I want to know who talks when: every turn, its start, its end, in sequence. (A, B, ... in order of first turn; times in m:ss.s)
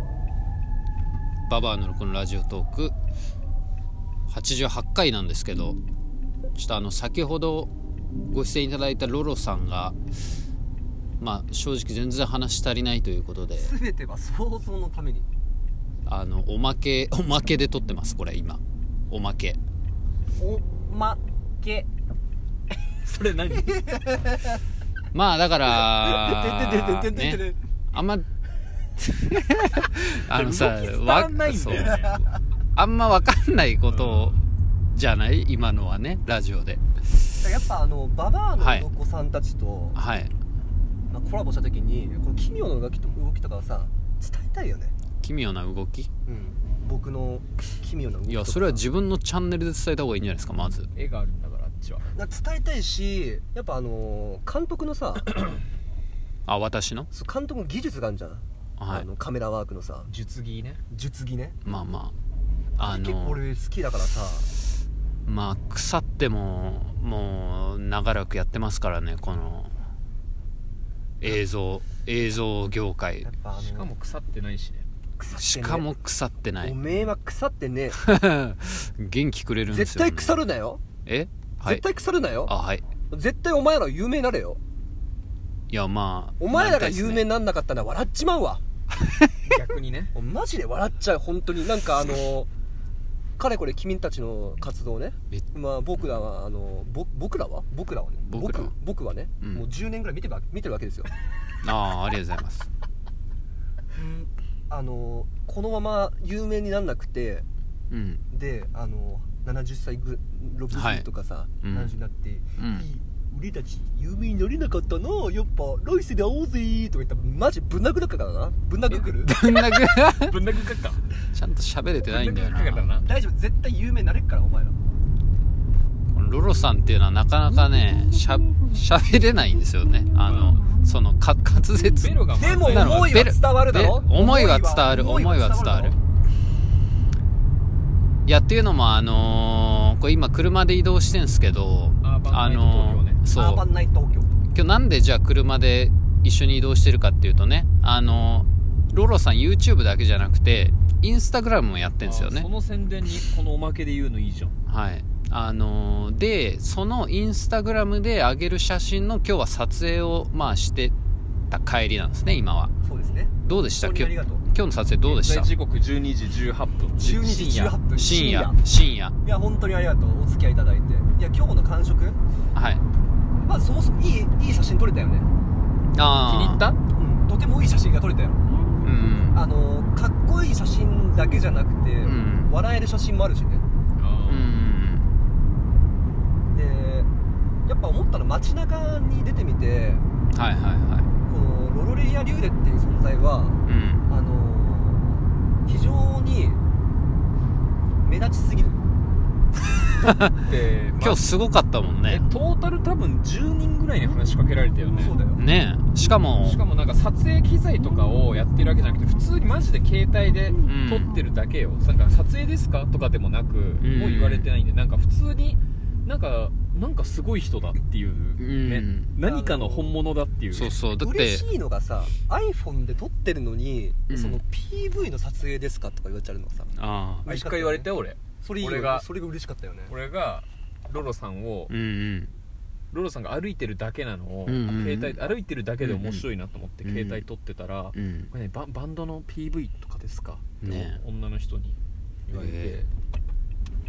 0:01.5-0:02.9 A
0:04.3-0:05.8 A
0:06.5-0:07.7 A
0:08.3-0:10.0 A
0:11.2-0:13.7 A
0:13.5-0:15.3 B
0:16.0-0:19.6 A
0:20.4-0:21.9 B
0:23.0-0:23.8 C
0:23.5-0:24.6 B
0:25.1-0:28.2 A
0:25.6-0:27.6 B
0:29.0-0:31.9 A
0:30.3-0:32.2 C
0:31.8-0:32.2 B
0:32.7-0:34.4 A
0:33.9-0:34.3 C
0:34.9-0:37.3 A
0:37.4-0:40.0 B
0:38.6-0:38.9 A
0:40.0-0:40.3 A
0:41.1-0:44.9 B
0:45.2-0:46.1 A
0:46.3-0:48.8 B
0:48.3-0:50.9 A
0:50.9-0:52.1 C
0:52.1-0:55.4 B
0:56.5-0:57.1 A
0:57.1-1:00.1 B
0:58.8-0:59.0 A
1:00.0-1:00.8 C
1:00.9-1:01.6 B
1:01.6-1:02.1 A
1:02.8-1:03.4 A
1:02.8-1:04.5 B
1:05.2-1:09.8 A
1:11.2-1:13.3 A
1:13.2-1:13.9 B
1:13.6-1:14.9 C
1:15.2-1:15.9 B
1:15.4-1:16.8 A
1:16.6-1:18.0 B
1:17.9-1:20.4 A
1:19.7-1:20.8 B
1:21.0-1:21.8 A
1:21.6-1:22.5 B
1:22.5-1:22.8 A
1:23.1-1:24.6 B
1:25.7-1:27.3 A
1:26.4-1:28.6 B
1:29.0-1:29.3 A
1:29.5-1:30.1 C
1:30.1-1:32.5 B
1:33.4-1:41.1 B
1:38.2-1:38.7 A
1:39.4-1:39.7 A
1:41.6-1:42.7 A
1:44.0-1:47.4 B
1:47.9-1:48.2 A
1:48.3-1:59.8 B
1:50.7-1:51.0 A
1:51.6-1:51.9 A
1:52.6-1:52.9 A
1:59.2-2:00.4 A
2:00.0-2:01.1 C
2:01.3-2:02.9 A
2:02.0-2:03.1 C
2:03.0-2:04.8 B
2:06.1-2:15.9 A
2:10.2-2:10.6 C
2:11.9-2:13.1 C
2:12.3-2:16.0 B
2:18.2-2:23.6 A
2:22.0-2:23.2 C
2:23.3-2:24.3 B
2:24.5-2:32.5 A
2:32.0-2:34.6 C
2:34.7-2:40.9 A
2:41.5-2:42.7 A
2:42.8-2:44.4 B
2:43.4-2:45.5 A
2:45.0-2:47.8 C
2:47.0-2:48.6 B
2:47.9-2:49.2 A
2:49.2-2:52.2 B
2:52.5-2:52.8 A
2:53.4-2:55.3 B
2:55.9-2:56.7 A
2:56.2-2:56.8 C
2:56.9-2:58.5 B
2:58.8-2:59.4 A
2:59.3-3:03.6 B
3:02.0-3:02.5 A
3:04.0-3:04.5 C
3:04.3-3:05.1 A
3:06.5-3:07.1 B
3:07.7-3:10.0 B
3:10.3-3:11.1 A
3:11.3-3:16.6 B
3:13.7-3:14.1 A
3:18.0-3:18.8 B
3:20.0-3:20.4 A
3:20.4-3:21.3 C
3:21.0-3:22.3 A
3:22.1-3:25.2 C
3:25.0-3:25.4 B
3:25.4-3:26.6 A
3:26.4-3:40.8 C
3:30.6-3:31.1 A
3:33.8-3:34.5 A
3:38.4-3:39.2 A
3:39.2-3:40.0 B
3:40.5-3:41.5 A
3:41.0-3:46.7 B
3:44.1-3:44.4 A
3:46.7-3:47.3 A
3:47.2-3:49.1 C
3:47.2-3:49.9 B
3:49.9-3:51.7 C
3:51.7-3:52.3 A
3:52.9-4:02.9 C
3:54.5-3:55.2 A
3:55.8-3:56.2 A
3:56.8-3:57.2 A
3:57.9-3:58.3 A
4:00.6-4:01.0 A
4:02.3-4:02.8 A